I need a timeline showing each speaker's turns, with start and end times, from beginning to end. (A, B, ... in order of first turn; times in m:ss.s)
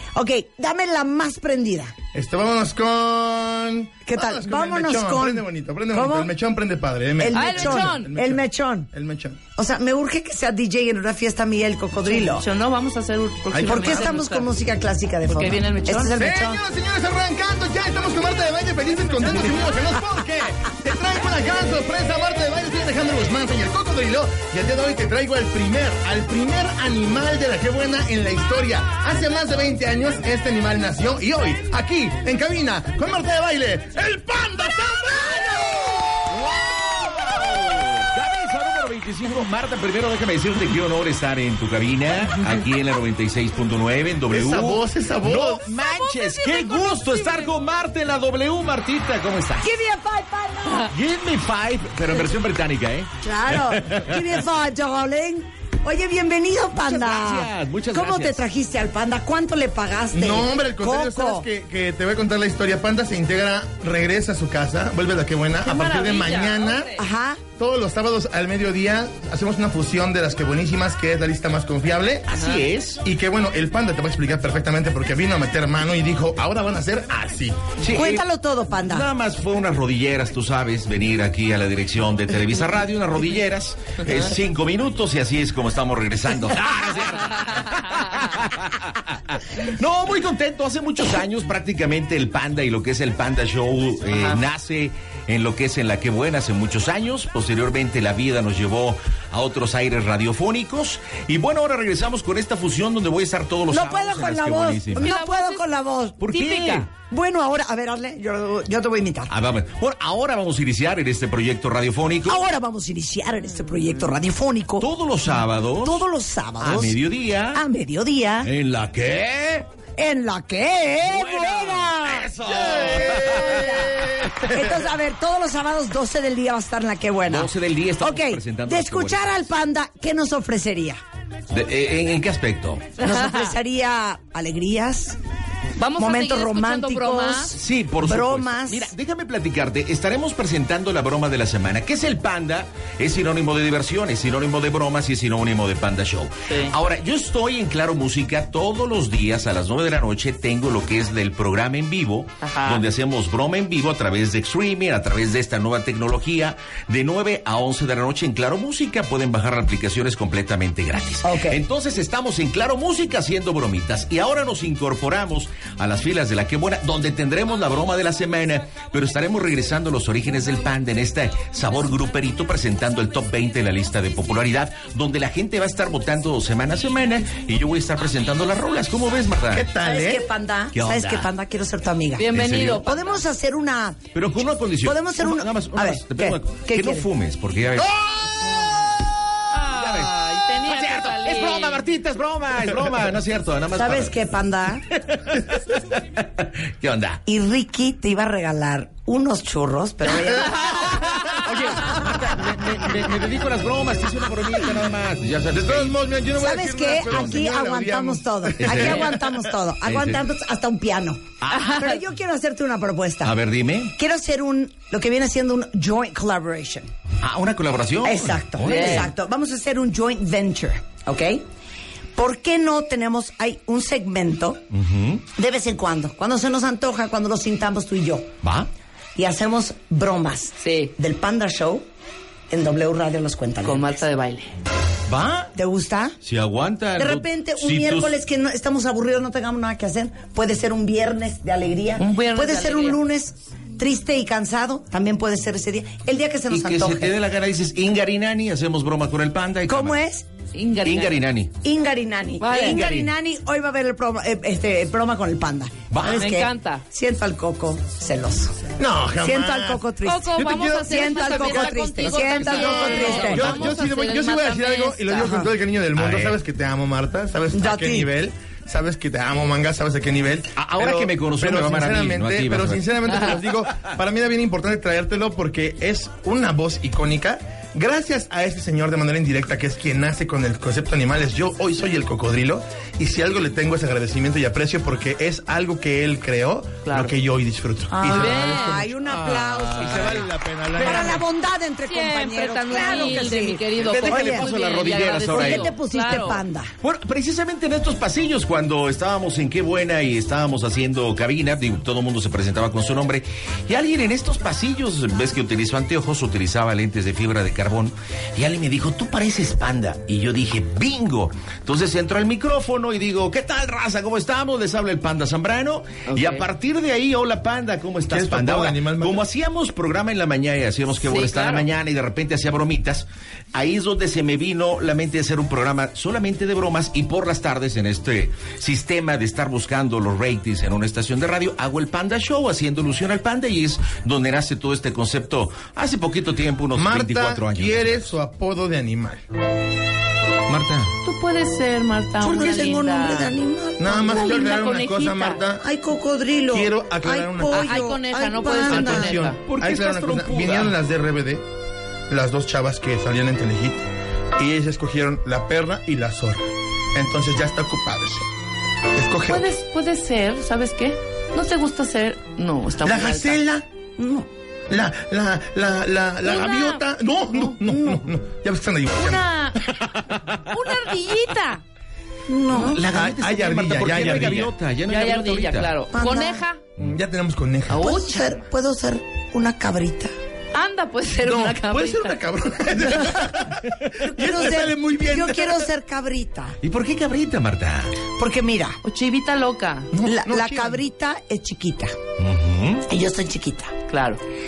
0:00.1-0:02.0 A
0:02.1-0:09.4 B
0:04.1-0:06.3 A
0:07.2-0:08.9 A
0:07.3-0:08.1 C
0:09.6-0:12.5 A
0:12.1-0:14.5 C
0:13.5-0:14.2 B
0:13.6-0:16.6 A
0:15.3-0:16.2 C
0:16.2-0:36.3 B
0:36.3-0:49.7 D
0:37.3-0:37.7 B
0:44.3-0:45.7 B
0:45.8-0:47.5 C
0:49.6-0:50.9 A
0:50.9-0:54.2 D
0:53.2-1:01.5 A
0:56.8-0:58.4 D
1:00.1-1:06.9 B
1:05.6-1:07.0 C
1:07.0-1:07.4 A
1:07.6-1:12.3 B
1:12.3-1:13.0 D
1:12.3-1:12.6 C
1:13.0-1:17.7 B
1:17.8-1:18.3 D
1:17.9-1:19.1 A
1:18.8-1:45.1 D
1:43.7-1:46.3 A
1:45.0-1:45.6 C
1:46.2-1:46.9 D
1:46.3-1:46.9 C
1:46.9-1:49.3 A
1:49.3-1:52.4 D
1:52.2-1:54.9 A
1:54.8-1:56.0 D
1:55.8-1:57.0 A
1:56.6-1:57.6 D
1:57.5-1:58.5 A
1:58.4-1:59.7 D
2:00.0-2:02.3 A
2:01.0-2:04.3 D
2:02.5-2:04.6 B
2:03.1-2:11.0 A
2:07.3-2:09.4 D
2:11.5-2:12.9 D
2:13.0-2:15.2 A
2:13.0-2:13.5 C
2:15.8-2:17.5 C
2:16.0-2:18.9 A
2:17.6-2:59.7 D
2:26.5-2:26.8 C
2:32.4-2:32.8 C
2:41.2-2:41.6 A
2:59.5-3:00.3 B
2:59.8-3:04.2 A
3:00.7-3:01.3 D
3:02.2-3:03.2 C
3:02.3-3:02.8 D
3:04.1-3:08.4 D
3:04.8-3:07.1 A
3:09.5-3:11.8 C
3:09.7-3:14.2 D
3:13.8-3:14.8 A
3:14.9-3:17.2 D
3:17.3-3:21.1 A
3:20.8-3:26.0 D
3:25.5-3:29.3 B
3:26.4-3:33.3 A
3:27.0-3:27.4 D
3:28.6-3:29.2 D
3:29.8-3:30.2 D
3:31.4-3:31.7 D
3:31.5-3:32.0 C
3:33.2-3:33.9 D
3:34.0-3:36.9 A
3:37.2-3:39.1 D
3:38.0-3:41.4 A
3:38.6-3:39.1 C
3:42.2-3:44.6 A
3:44.7-3:45.2 D
3:45.4-3:48.3 A
3:48.4-3:48.7 D
3:49.2-3:51.9 A
3:50.6-3:50.9 C
3:52.5-3:54.0 A
3:53.6-3:54.5 C
3:55.1-3:55.5 D
3:55.6-3:56.2 A
3:56.2-3:58.1 D
3:57.0-4:07.2 A
4:02.0-4:03.0 C
4:06.5-4:10.0 D
4:09.7-4:10.3 A
4:10.5-4:11.2 C
4:10.8-4:11.6 D
4:11.6-4:23.6 A
4:12.4-4:12.8 C
4:12.5-4:13.1 D
4:15.9-4:16.3 D
4:16.1-4:16.8 C
4:18.8-4:19.8 B
4:20.0-4:25.3 C
4:20.4-4:51.2 B
4:25.1-4:25.5 A
4:26.0-4:26.4 D
4:27.5-4:28.1 A
4:30.6-4:33.9 D
4:46.8-4:47.1 C
4:47.9-4:54.5 A
4:48.0-4:48.8 C
4:49.8-4:51.1 D
4:51.9-4:56.4 C
4:53.8-4:55.7 D
4:55.3-4:56.7 A
4:56.8-5:38.2 D
5:16.1-5:16.4 C
5:18.1-5:19.2 B
5:21.0-5:21.7 C
5:36.8-5:39.2 B
5:40.5-5:40.9 D
5:41.0-5:43.4 C
5:42.2-5:44.5 A
5:43.8-5:45.6 B
5:43.9-5:45.4 C
5:45.6-5:49.2 A
5:46.5-5:47.8 B
5:47.5-5:49.4 C
5:48.7-5:51.5 B
5:49.4-5:50.8 D
5:52.1-5:53.8 B
5:54.4-5:58.3 B
5:58.9-5:59.5 B
5:59.3-6:03.4 C
6:02.8-6:03.6 B
6:04.0-6:04.3 A
6:04.7-6:09.3 B
6:06.2-6:06.8 C
6:07.7-6:08.0 A
6:09.0-6:09.6 C
6:10.5-6:11.6 C
6:12.3-6:12.8 A
6:12.5-6:15.7 D
6:12.8-6:14.5 B
6:14.9-6:16.6 C
6:15.9-6:16.4 A
6:16.8-6:17.9 B
6:17.7-6:18.5 C
6:17.7-6:20.1 A
6:20.5-6:22.2 C
6:21.2-6:25.7 B
6:24.0-6:26.6 A
6:26.6-6:28.0 D
6:28.2-6:28.8 A
6:28.8-6:29.9 C
6:29.9-6:30.8 B
6:30.0-6:32.0 A
6:32.2-6:32.8 D
6:32.9-6:33.8 A
6:33.9-6:34.2 C